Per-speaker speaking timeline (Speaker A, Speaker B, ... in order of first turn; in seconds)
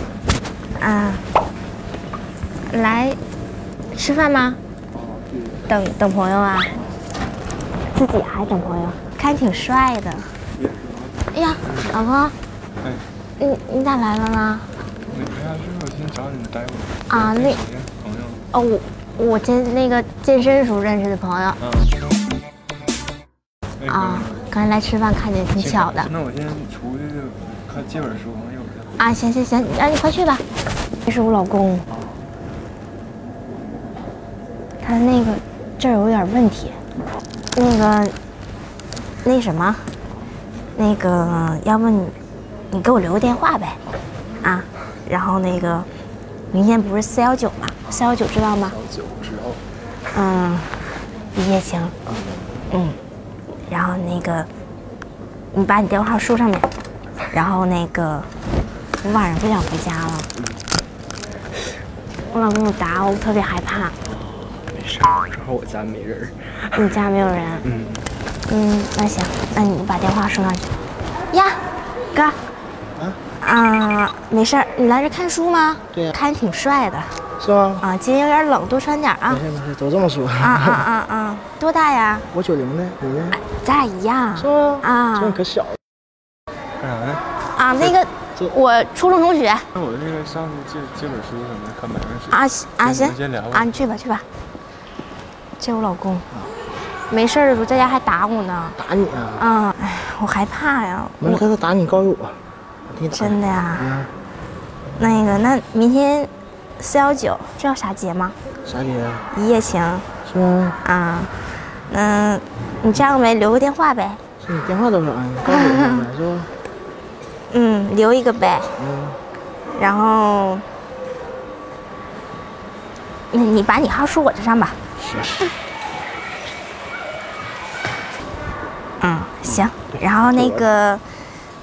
Speaker A: 0.8-1.2, 2.7-3.2, 3.9-4.6, 5.7-6.8, 7.9-10.3, 11.3-12.4, 13.4-14.7, 17.1-17.6, 18.5-21.6, 23.9-26.1, 28.9-30.4, 31.1-31.9, 34.8-36.8, 37.5-38.2, 39.2-39.9, 40.7-42.1, 42.7-43.8, 44.4-45.9, 46.5-48.8, 50.1-52.0, 52.7-53.0, 53.7-54.5, 55.5-56.7, 57.3-58.3, 59.0-60.3, 62.3-64.0, 66.8-67.7, 68.5-70.8, 71.3-72.4, 73.4-77.2, 77.8-79.4, 80.4-82.3, 83.3-85.4, 87.5-89.7, 92.3-94.2, 95.6-96.3, 97.1-98.8, 99.4-101.5, 103.1-103.9, 105.0-108.4, 109.3-110.1, 110.8-114.2, 115.5-115.9, 117.5-118.8, 119.8-120.7, 123.3-124.8, 129.0-131.4
Speaker B: 5.0-5.6, 10.6-12.0, 12.8-13.1, 15.1-18.4, 21.6-22.0, 23.8-24.4, 25.6-28.9, 48.7-49.6, 52.1-52.5, 60.4-60.6, 64.5-67.0, 67.6-68.1, 86.8-87.3, 89.7-93.8
Speaker C: 77.4-77.8, 79.3-80.8, 82.3-83.4, 84.4-85.8, 98.8-99.5, 101.2-104.1, 108.6-109.3, 110.2-110.8, 114.4-116.5, 118.8-119.2, 125.0-125.5, 130.2-130.6